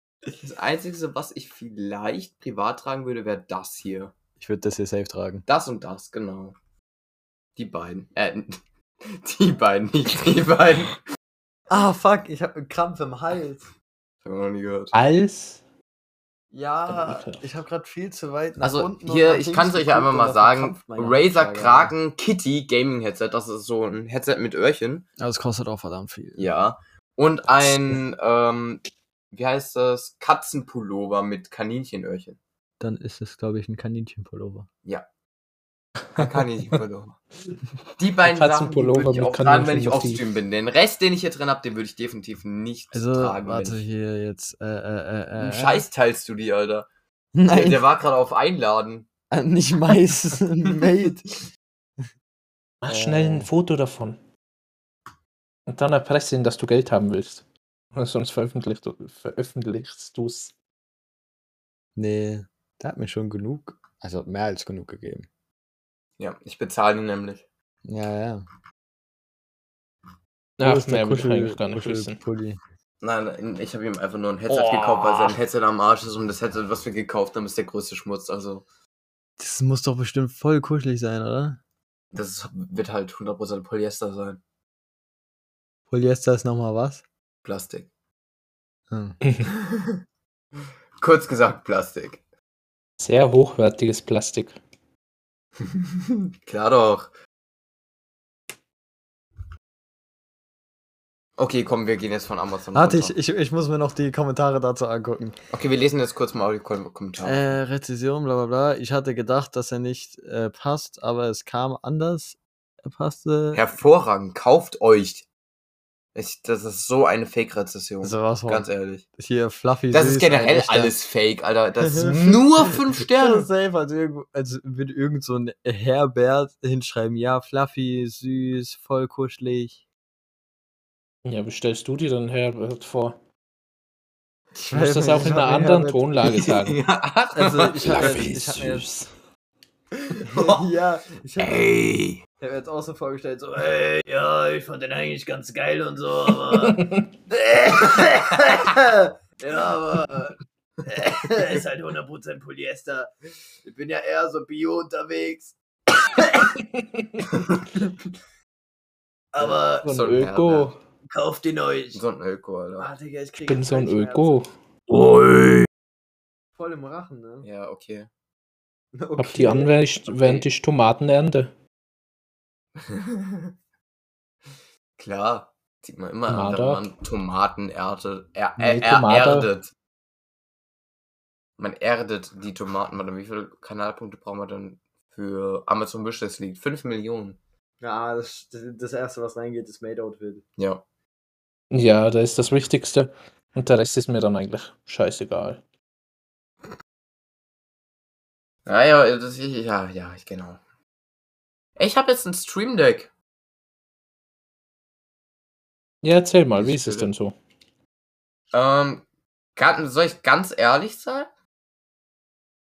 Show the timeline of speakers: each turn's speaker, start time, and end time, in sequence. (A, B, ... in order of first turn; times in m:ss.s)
0:00.3-0:04.1 A
0:04.4-0:05.4 B
0:05.5-0:06.6 A
0:07.6-0:11.0 A
0:11.7-0:13.7 B
0:14.2-0:15.0 A
0:14.9-0:15.6 C
0:16.5-0:22.0 B
0:16.9-0:17.4 C
0:18.6-0:25.0 A
0:25.2-0:26.4 B
0:26.4-0:32.4 A
0:32.8-0:34.7 B
0:36.2-0:37.2 A
0:38.0-0:43.8 A
0:38.2-0:40.2 C
0:42.9-0:45.9 B
0:45.4-0:46.9 A
0:47.4-0:47.8 B
0:47.5-0:49.1 A
0:49.3-0:51.3 B
0:52.8-0:54.2 C
0:52.9-0:53.5 B
0:55.7-0:57.4 C
0:58.0-1:00.5 C
1:02.0-1:05.3 B
1:06.2-1:07.4 A
1:07.8-1:08.4 B
1:10.6-1:12.2 C
1:10.6-1:12.6 B
1:13.0-1:18.6 A
1:14.5-1:15.4 B
1:19.4-1:21.6 B
1:22.1-1:24.4 A
1:25.9-1:27.0 B
1:27.4-1:27.9 A
1:28.9-1:29.2 B
1:29.2-1:29.5 C
1:31.0-1:32.2 A
1:33.0-1:34.6 C
1:36.4-1:37.1 A
1:41.4-1:43.2 A
1:42.7-1:45.4 B
1:45.5-1:47.5 A
1:47.2-1:53.6 B
1:53.5-1:55.3 A
1:56.2-1:59.0 A
1:58.0-2:01.0 B
1:59.9-2:03.5 A
2:01.9-2:09.8 B
2:11.2-2:13.2 C
2:14.5-2:16.4 B
2:14.7-2:16.8 C
2:16.2-2:18.4 A
2:17.4-2:18.9 B
2:17.8-2:19.1 C
2:20.2-2:21.7 B
2:20.3-2:20.6 A
2:21.4-2:22.2 A
2:22.4-2:33.1 B
2:26.6-2:27.1 C
2:33.6-2:35.6 B
2:36.1-2:36.5 B
2:39.3-2:39.9 B
2:39.4-2:40.8 A
2:39.8-2:40.8 C
2:41.1-2:42.0 B
2:41.9-2:42.9 A
2:42.8-2:45.6 B
2:43.5-2:44.5 C
2:46.6-2:47.5 B
2:47.4-2:48.1 A
2:48.9-2:49.8 B
2:49.2-2:51.5 C
2:50.1-2:50.4 A
2:55.0-2:59.7 A
2:56.3-2:56.9 C
2:58.6-2:59.5 C
3:01.6-3:07.4 A
3:07.8-3:10.4 B
3:10.6-3:10.8 A
3:11.7-3:15.6 C
3:18.7-3:20.6 A
3:21.8-3:23.1 A
3:26.0-3:27.4 C
3:26.6-3:27.1 A
3:28.5-3:29.0 A
3:29.6-3:31.3 A